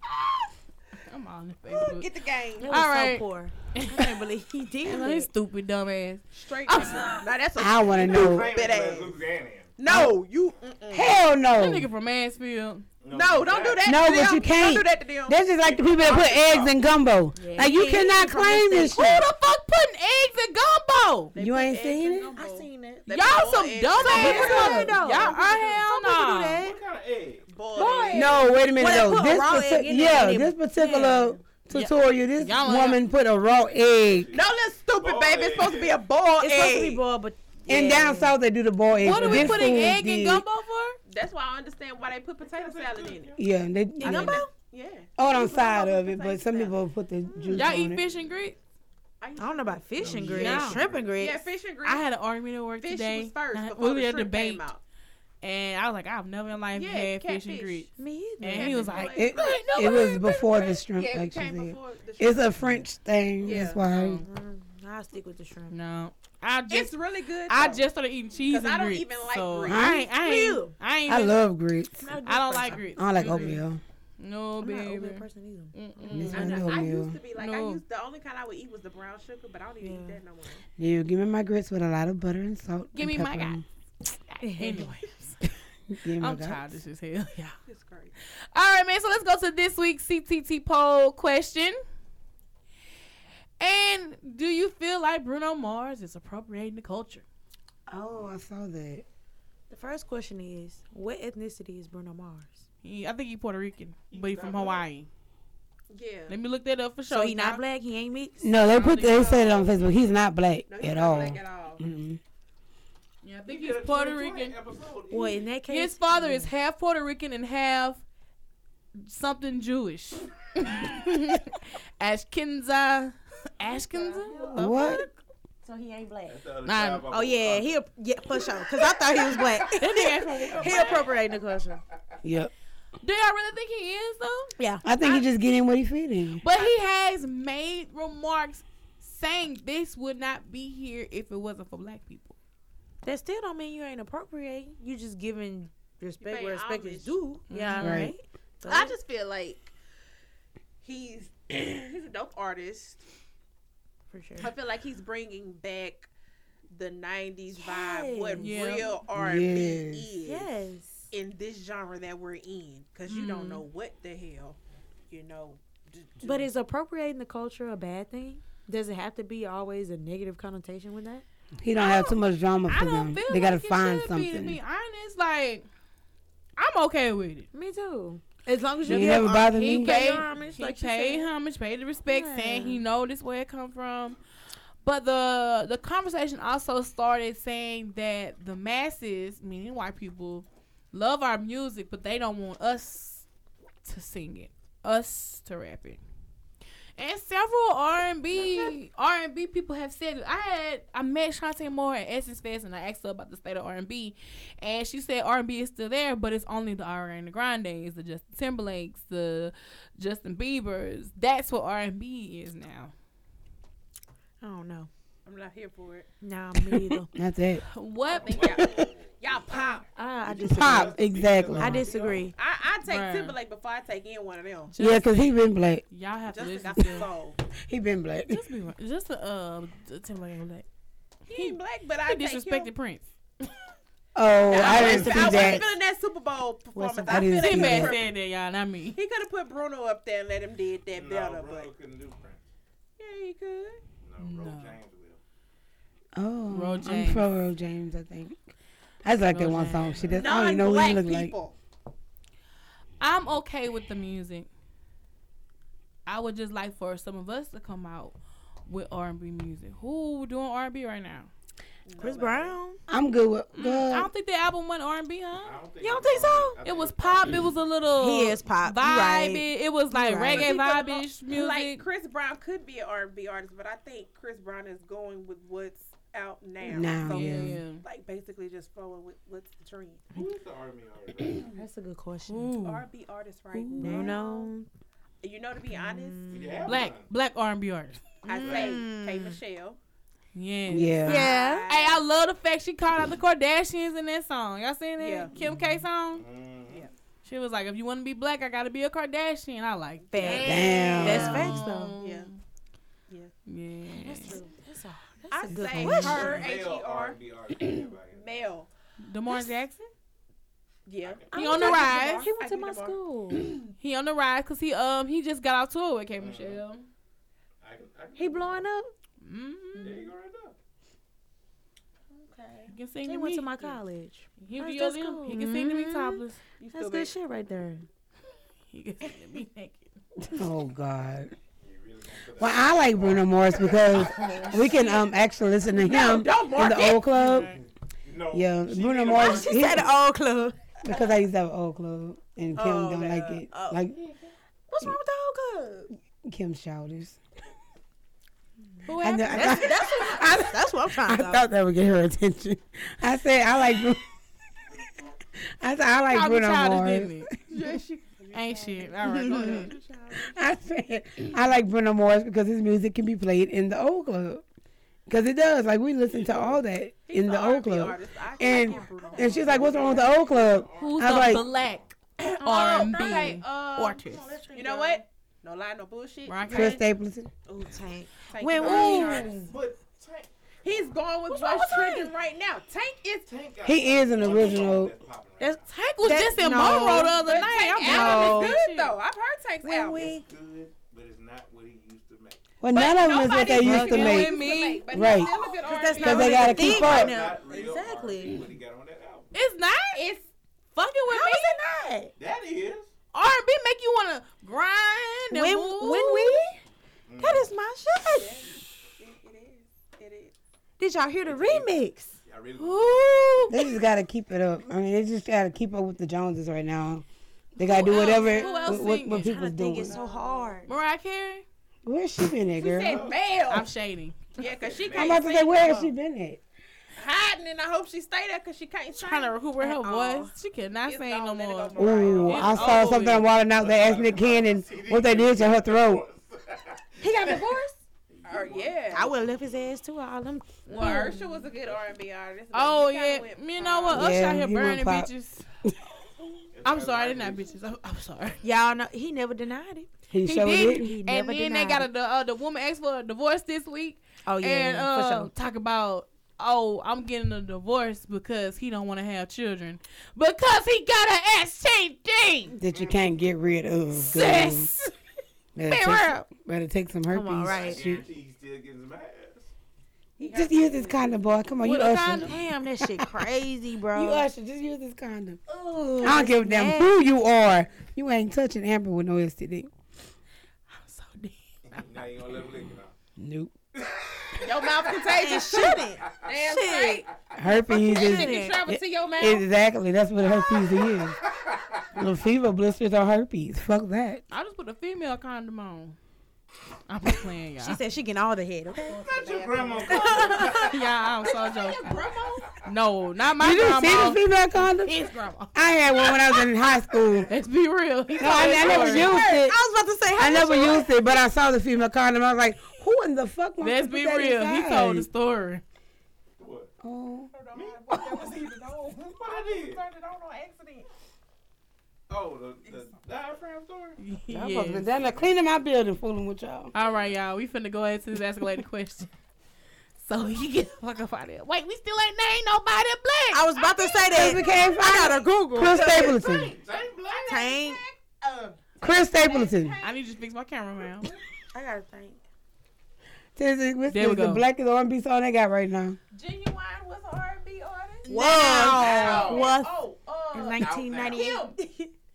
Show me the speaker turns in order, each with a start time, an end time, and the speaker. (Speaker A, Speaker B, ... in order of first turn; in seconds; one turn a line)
Speaker A: 1.1-2.1
Speaker B: 1.7-2.7
Speaker C: 2.6-5.3
Speaker A: 2.6-4.1
Speaker A: 4.8-7.2
Speaker B: 6.3-9.1
Speaker D: 7.6-8.5
Speaker E: 7.9-9.7
Speaker B: 9.8-11.2
Speaker D: 10.9-11.9
Speaker A: 11.6-12.8
Speaker E: 13.0-13.9
Speaker B: 13.1-15.5
Speaker D: 13.8-19.3
Speaker E: 15.6-16.8
Speaker C: 17.4-18.9
Speaker B: 17.5-18.9
Speaker A: 18.9-21.3
Speaker B: 21.3-25.5
Speaker D: 21.4-22.3
Speaker C: 22.4-23.1
Speaker A: 23.1-26.7
Speaker C: 24.0-26.7
Speaker D: 24.1-24.9
Speaker E: 26.6-27.4
Speaker B: 27.5-28.4
Speaker C: 27.8-31.4
Speaker D: 28.1-34.3
Speaker A: 31.7-33.0
Speaker E: 34.1-36.0
Speaker B: 34.3-37.0
Speaker C: 36.4-38.4
Speaker D: 37.7-40.4
Speaker A: 39.0-41.0
Speaker B: 41.1-43.3
Speaker E: 42.4-43.4
Speaker D: 43.4-44.4
Speaker C: 44.0-44.5
Speaker B: 44.0-46.8
Speaker D: 45.2-48.0
Speaker A: 47.5-48.6
Speaker B: 49.2-52.0
Speaker C: 49.4-51.5
Speaker E: 50.0-51.1
Speaker A: 50.3-50.8
Speaker A: 51.8-54.6
Speaker B: 52.8-54.8
Speaker A: 55.4-57.9
Speaker B: 56.7-57.9
Speaker C: 58.0-59.0
Speaker A: 58.4-60.7
Speaker B: 58.5-62.6
Speaker D: 59.1-64.2
Speaker B: 63.4-63.8
Speaker A: 63.5-64.2
Speaker C: 64.2-65.7
Speaker A: 65.7-66.9
Speaker B: 66.7-67.8
Speaker A: 67.5-71.4
Speaker B: 68.4-70.0
Speaker D: 69.7-70.0
Speaker C: 69.7-70.7
Speaker D: 71.1-72.1
Speaker C: 72.0-73.5
Speaker A: 72.2-73.6
Speaker D: 73.0-73.8
Speaker A: 74.2-76.7
Speaker C: 74.6-76.2
Speaker D: 76.1-77.2
Speaker B: 76.3-80.6
Speaker A: 77.3-77.8
Speaker C: 79.8-80.2
Speaker D: 80.8-83.6
Speaker A: 82.9-85.3
Speaker C: 84.4-84.9
Speaker D: 85.9-86.8
Speaker A: 86.2-87.5
Speaker B: 87.7-88.1
Speaker A: 88.5-91.8
Speaker A: 93.6-97.2
Speaker D: 97.9-99.0
Speaker C: 99.7-102.7
Speaker A: 102.8-105.1
Speaker E: 104.1-104.8
Speaker B: 105.9-106.3
Speaker A: 106.3-107.6
Speaker C: 107.1-108.5
Speaker D: 108.4-112.2
Speaker A: 108.5-109.6
Speaker B: 110.7-111.8
Speaker A: 113.2-114.5
Speaker E: 113.5-115.4
Speaker C: 115.1-116.5
Speaker A: 115.7-118.0
Speaker A: 119.0-124.5
Speaker B: 124.1-125.1
Speaker C: 124.2-124.9
Speaker D: 124.5-125.0
Speaker C: 125.6-126.4
Speaker E: 126.3-127.8
Speaker A: 126.6-127.0
Speaker C: 127.1-131.8
Speaker A: 129.7-131.1
Speaker D: 132.2-132.5
Speaker A: 133.0-135.2
Speaker C: 134.6-134.8
Speaker D: 134.8-136.4
Speaker A: 136.4-142.3
Speaker C: 143.0-148.9
Speaker B: 146.2-147.2
Speaker A: 147.5-148.1
Speaker D: 147.8-148.1
Speaker B: 148.6-149.7
Speaker B: 150.8-153.0
Speaker C: 154.1-154.5
Speaker B: 154.4-156.1
Speaker B: 156.7-160.5
Speaker C: 157.6-158.5
Speaker A: 158.4-158.9
Speaker D: 159.1-160.1
Speaker C: 160.2-161.1
Speaker B: 161.1-164.6
Speaker A: 163.1-163.6
Speaker B: 165.1-166.5
Speaker C: 166.2-171.2
Speaker D: 171.6-174.6
Speaker A: 171.8-175.7
Speaker A: 176.6-177.5
Speaker C: 177.5-181.3
Speaker D: 178.9-179.9
Speaker A: 178.9-184.2
Speaker C: 182.1-182.8
Speaker A: 184.8-193.3
Speaker A: 193.8-196.0
Speaker A: 197.0-212.9
Speaker C: 214.4-214.9
Speaker B: 215.2-216.1
Speaker C: 216.2-217.1
Speaker D: 217.1-217.6
Speaker A: 217.7-218.6
Speaker E: 218.1-219.2
Speaker B: 218.2-219.8
Speaker C: 219.9-221.0
Speaker E: 220.2-222.3
Speaker D: 220.4-221.9
Speaker C: 221.5-222.3
Speaker B: 222.3-224.7
Speaker A: 222.8-223.3
Speaker A: 224.7-225.3
Speaker D: 224.8-225.8
Speaker A: 225.9-227.1
Speaker B: 226.3-227.4
Speaker D: 227.7-228.4
Speaker A: 228.3-230.6
Speaker B: 231.3-232.7
Speaker A: 231.3-233.1
Speaker D: 234.1-235.7
Speaker C: 234.5-235.7
Speaker B: 234.5-238.1
Speaker E: 234.8-235.1
Speaker C: 236.8-237.3
Speaker D: 237.1-238.0
Speaker A: 237.3-239.0
Speaker B: 238.9-241.7
Speaker E: 240.9-242.4
Speaker B: 243.0-243.8
Speaker E: 244.0-245.2
Speaker A: 244.2-244.8
Speaker D: 246.1-248.4
Speaker A: 246.5-247.3
Speaker D: 249.0-251.3
Speaker A: 249.3-250.3
Speaker B: 250.2-251.5
Speaker A: 253.0-254.5
Speaker A: 256.1-261.3
Speaker B: 261.9-262.6
Speaker C: 262.0-262.8
Speaker D: 262.9-264.1
Speaker A: 263.5-265.5
Speaker E: 265.4-267.5
Speaker C: 265.8-266.6
Speaker A: 266.6-271.8
Speaker C: 268.0-270.5
Speaker B: 270.3-280.1
Speaker D: 276.6-277.6
Speaker A: 277.0-277.8
Speaker E: 280.1-281.4
Speaker C: 281.5-282.5
Speaker A: 282.3-282.8
Speaker B: 282.6-284.5
Speaker C: 283.7-284.7
Speaker D: 283.8-284.1
Speaker B: 285.2-286.3
Speaker C: 285.7-286.7
Speaker E: 286.3-287.1
Speaker A: 286.7-288.0
Speaker B: 288.2-289.8
Speaker C: 288.3-289.4
Speaker E: 288.4-288.8
Speaker A: 290.3-296.2
Speaker D: 290.7-291.2
Speaker C: 291.1-291.7
Speaker B: 291.1-292.0
Speaker B: 295.0-295.3
Speaker E: 296.1-296.9
Speaker A: 297.2-302.4
Speaker C: 300.1-301.9
Speaker B: 300.1-302.3
Speaker D: 300.4-301.5
Speaker A: 303.5-304.4
Speaker C: 303.9-306.4
Speaker B: 305.3-307.2
Speaker D: 305.5-306.2
Speaker E: 306.1-308.4
Speaker B: 308.1-308.7
Speaker A: 309.0-309.9
Speaker B: 310.9-313.0
Speaker E: 311.0-311.4
Speaker C: 311.3-313.6
Speaker A: 311.3-312.3
Speaker A: 313.8-316.8
Speaker E: 316.2-316.6
Speaker E: 317.6-318.7
Speaker C: 318.1-318.9
Speaker A: 319.2-320.0
Speaker E: 319.8-320.6
Speaker B: 322.1-322.7
Speaker A: 322.7-323.7
Speaker C: 323.1-327.9
Speaker A: 324.4-326.4
Speaker B: 326.6-327.1
Speaker A: 328.7-329.9
Speaker D: 330.2-331.3
Speaker E: 331.6-334.7
Speaker D: 332.4-337.5
Speaker B: 335.8-337.1
Speaker A: 337.2-337.4
Speaker E: 337.2-339.9
Speaker D: 338.3-339.9
Speaker C: 339.0-340.6
Speaker D: 340.8-343.9
Speaker C: 342.6-343.8
Speaker B: 342.7-343.4
Speaker C: 344.7-345.9
Speaker D: 346.2-347.2
Speaker A: 348.9-349.8
Speaker D: 349.0-354.0
Speaker C: 349.3-351.4
Speaker D: 355.6-357.3
Speaker A: 356.1-357.3
Speaker B: 357.5-360.3
Speaker A: 358.3-359.7
Speaker C: 359.1-359.6
Speaker D: 360.1-364.4
Speaker D: 365.1-371.4
Speaker E: 366.1-366.6
Speaker B: 367.1-370.1
Speaker E: 368.7-371.9
Speaker A: 370.8-371.8
Speaker B: 372.2-376.8
Speaker A: 372.4-374.3
Speaker C: 372.4-375.0
Speaker A: 376.3-376.8
Speaker D: 376.5-377.3
Speaker C: 377.5-379.5
Speaker B: 378.3-379.4
Speaker E: 378.6-380.9
Speaker B: 380.6-383.3
Speaker A: 381.3-382.0
Speaker E: 383.3-385.7
Speaker D: 383.6-384.9
Speaker C: 385.4-387.2
Speaker A: 385.7-388.9
Speaker B: 386.9-390.1
Speaker C: 387.8-388.6
Speaker C: 389.6-390.2
Speaker E: 389.9-392.4
Speaker D: 392.6-394.3
Speaker A: 392.7-395.2
Speaker B: 392.8-396.8
Speaker D: 394.9-395.3
Speaker C: 395.6-398.4
Speaker E: 395.6-396.0
Speaker A: 396.0-396.5
Speaker D: 396.0-397.1
Speaker E: 396.5-399.3
Speaker A: 399.3-400.0
Speaker B: 399.9-400.3
Speaker A: 400.7-401.6
Speaker C: 401.1-402.1
Speaker E: 402.2-402.9
Speaker A: 403.1-406.4
Speaker C: 405.3-406.6
Speaker E: 407.1-407.5
Speaker C: 407.2-408.4
Speaker B: 408.1-410.3
Speaker C: 410.8-412.2
Speaker E: 411.2-411.7
Speaker E: 412.2-413.5
Speaker A: 412.6-413.6
Speaker D: 413.5-417.0
Speaker D: 417.6-419.9
Speaker A: 417.6-419.4
Speaker B: 418.1-418.7
Speaker C: 418.3-420.7
Speaker B: 419.9-420.6
Speaker A: 420.7-421.4
Speaker D: 421.8-423.0
Speaker B: 422.6-423.7
Speaker E: 422.8-423.2
Speaker A: 423.5-424.3
Speaker B: 424.4-425.9
Speaker E: 424.4-425.2
Speaker D: 424.9-426.4
Speaker B: 427.0-429.4
Speaker A: 429.0-433.3
Speaker C: 429.6-430.3
Speaker B: 430.9-432.6
Speaker D: 431.8-436.0
Speaker E: 432.1-437.4
Speaker C: 437.0-437.7
Speaker E: 438.1-439.3
Speaker B: 438.2-439.1
Speaker C: 438.9-441.0
Speaker A: 440.7-441.2
Speaker B: 440.7-444.1
Speaker A: 442.5-445.4
Speaker D: 443.9-445.1
Speaker E: 446.5-447.5
Speaker A: 446.6-448.4
Speaker C: 448.4-449.9
Speaker D: 450.1-451.0
Speaker A: 450.2-462.6
Speaker C: 450.7-451.9
Speaker C: 454.2-455.3
Speaker D: 462.6-464.7
Speaker A: 464.0-464.9
Speaker D: 465.5-468.0
Speaker A: 465.6-466.2
Speaker C: 467.1-467.8
Speaker E: 467.4-469.5
Speaker B: 470.2-471.3
Speaker D: 470.2-472.4
Speaker A: 471.6-472.3
Speaker C: 472.2-474.2
Speaker D: 473.9-475.4
Speaker C: 475.5-476.9
Speaker D: 476.0-479.7
Speaker A: 480.7-482.1
Speaker E: 481.7-482.9
Speaker D: 483.2-483.5
Speaker E: 483.8-484.8
Speaker B: 484.4-487.0
Speaker C: 485.1-487.0
Speaker D: 487.4-491.1
Speaker B: 487.7-489.4
Speaker C: 487.8-488.6
Speaker E: 491.3-491.8
Speaker D: 491.9-494.2
Speaker A: 494.3-496.0
Speaker A: 496.9-497.8
Speaker C: 497.6-500.6
Speaker E: 498.8-500.8
Speaker B: 499.0-500.5
Speaker A: 500.6-501.8
Speaker B: 501.4-502.5
Speaker A: 502.6-504.2
Speaker D: 503.4-504.9
Speaker A: 504.8-505.6
Speaker D: 505.5-507.3
Speaker A: 507.3-509.2
Speaker D: 508.2-509.6
Speaker C: 508.4-510.9
Speaker D: 510.1-515.1
Speaker A: 513.6-515.6
Speaker E: 516.4-516.7
Speaker D: 516.8-517.3
Speaker B: 517.3-520.9
Speaker E: 517.5-517.9
Speaker E: 519.0-519.8
Speaker E: 522.1-524.0
Speaker A: 524.0-524.9
Speaker D: 524.3-526.7
Speaker E: 524.9-525.3
Speaker A: 526.7-529.1
Speaker E: 526.7-527.2
Speaker A: 530.0-534.3
Speaker C: 533.3-536.1
Speaker D: 534.1-536.5
Speaker B: 535.7-536.1
Speaker E: 535.8-537.7
Speaker C: 537.2-537.8
Speaker B: 537.3-540.0
Speaker D: 538.8-539.8
Speaker A: 539.8-541.1
Speaker C: 541.5-542.2
Speaker D: 543.4-546.0
Speaker A: 543.9-544.4
Speaker B: 546.1-551.6
Speaker C: 548.0-549.7
Speaker A: 548.3-548.8
Speaker E: 548.4-549.6
Speaker C: 550.3-551.9
Speaker E: 550.6-551.2